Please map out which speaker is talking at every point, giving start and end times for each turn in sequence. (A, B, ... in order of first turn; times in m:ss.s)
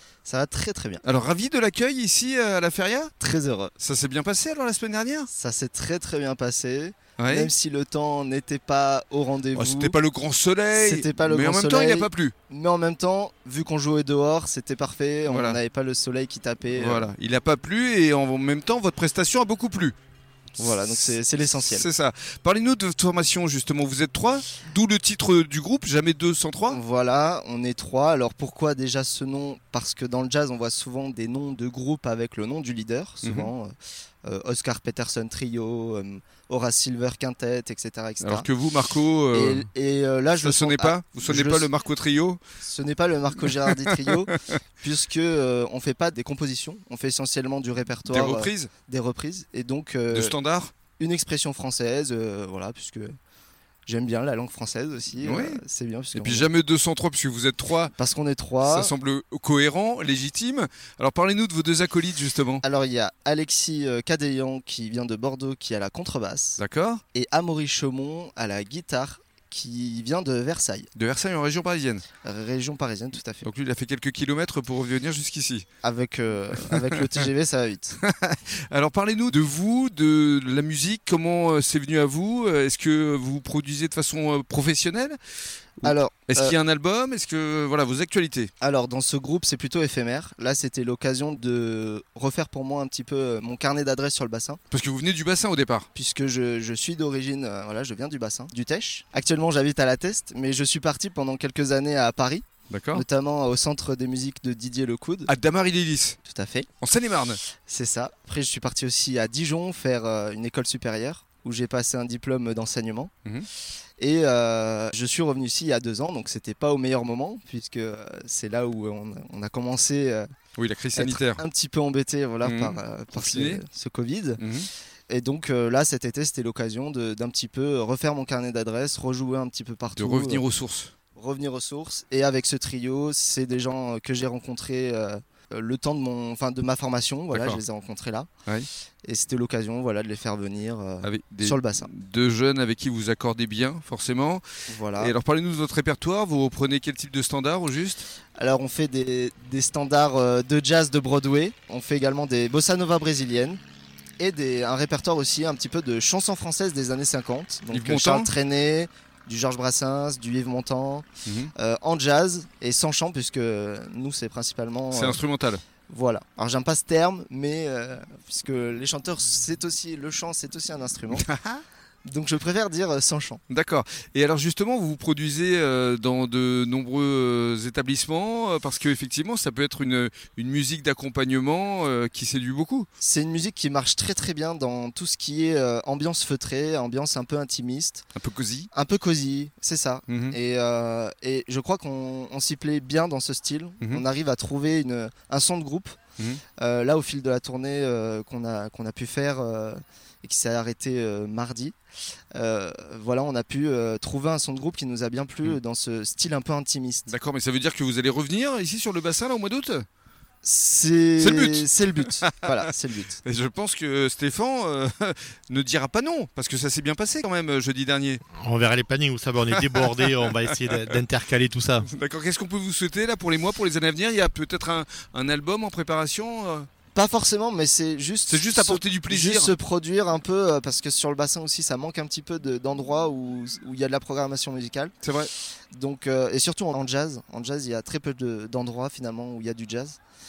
0:00.3-0:01.0 A
0:01.0-0:03.1 B
0:03.2-0:03.7 A
0:03.8-0:05.3 B
0:05.3-0:10.0 A
0:07.2-0:07.5 B
0:09.5-0:12.4 B
0:10.7-0:17.1 A
0:15.3-0:15.6 B
0:16.7-0:20.0 B
0:20.6-0:21.9 A
0:20.6-0:26.8 B
0:26.7-0:38.5 A
0:33.2-0:33.5 B
0:38.2-0:39.7 B
0:39.3-0:41.7 A
0:40.4-0:42.4 B
0:42.6-0:50.4 A
0:43.5-0:44.0 B
0:48.1-0:48.7 B
0:50.1-0:50.7 B
0:51.0-0:53.2 A
0:53.9-0:56.5 A
0:55.2-0:55.6 B
0:56.1-0:57.9 B
0:58.0-0:58.9 A
0:58.6-1:02.6 B
1:02.6-1:06.6 A
1:06.6-1:07.0 B
1:07.1-1:10.9 A
1:11.0-1:12.0 B
1:12.2-1:13.5 A
1:13.4-1:15.6 B
1:15.8-1:18.0 A
1:16.6-1:17.0 B
1:18.0-1:25.2 B
1:25.8-1:28.5 B
1:25.8-1:26.6 A
1:28.6-1:34.6 A
1:34.7-1:35.9 B
1:35.9-1:45.3 A
1:42.7-1:43.0 B
1:45.3-1:46.2 B
1:46.2-1:46.7 A
1:46.8-1:47.4 B
1:47.6-1:53.1 A
1:54.0-2:00.3 A
2:00.6-2:01.4 B
2:00.9-2:04.4 A
2:02.4-2:03.6 B
2:04.4-2:04.7 B
2:05.1-2:10.4 A
2:10.0-2:10.9 B
2:11.2-2:18.3 A
2:17.3-2:17.6 B
2:19.0-2:21.9 A
2:21.0-2:24.4 B
2:24.7-2:25.2 A
2:25.0-2:28.1 B
2:28.4-2:33.6 A
2:34.2-2:45.2 A
2:37.7-2:38.3 B
2:41.2-2:41.5 B
2:44.9-2:45.6 B
2:45.9-2:51.3 A
2:51.1-2:51.6 B
2:52.0-2:53.4 A
2:53.5-3:02.9 B
3:03.0-3:08.0 A
3:08.2-3:08.7 B
3:08.7-3:16.0 A
3:10.1-3:10.4 B
3:16.6-3:21.8 A
3:22.4-3:27.1 A
3:27.1-3:29.9 B
3:30.4-3:33.2 A
3:31.2-3:32.5 B
3:33.2-3:38.2 B
3:38.4-3:41.9 C
3:39.5-3:40.0 B
3:41.9-3:46.7 B
3:47.0-3:54.9 A
3:48.3-3:49.5 B
3:55.0-3:55.3 B
3:55.7-4:00.0 A